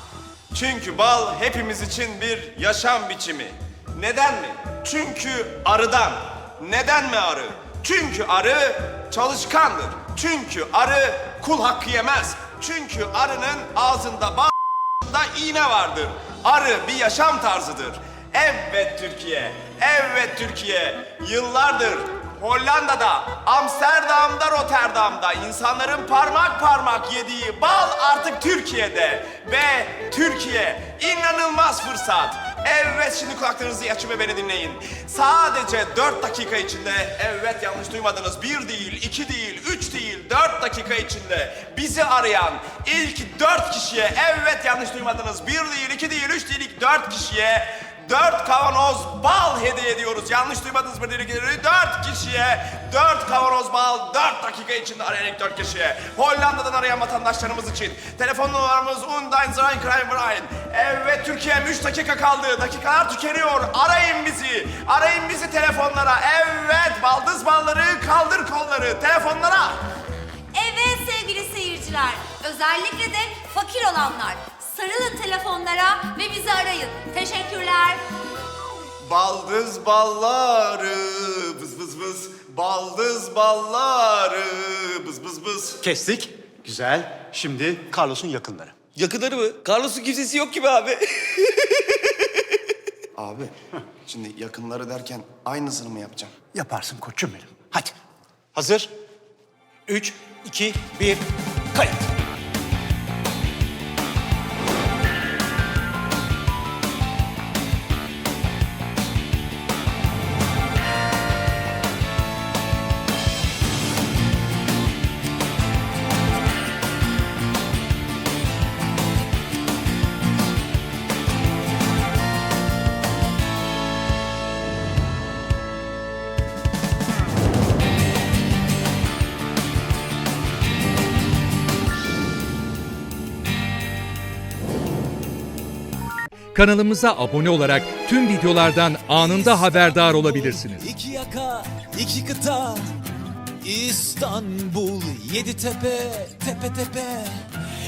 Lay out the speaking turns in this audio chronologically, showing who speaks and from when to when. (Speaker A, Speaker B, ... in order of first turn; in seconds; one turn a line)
Speaker A: 0.5-69.8
Speaker B: 70.5-78.0
Speaker A: 79.0-85.8
Speaker C: 85.8-88.7
Speaker D: 89.0-92.0
Speaker A: 93.2-93.5
Speaker A: 94.1-96.3
Speaker C: 96.5-97.9
Speaker C: 98.5-98.9
Speaker C: 99.9-102.1
Speaker E: 136.5-140.9
Speaker F: 140.9-142.8
Speaker F: 143.6-147.5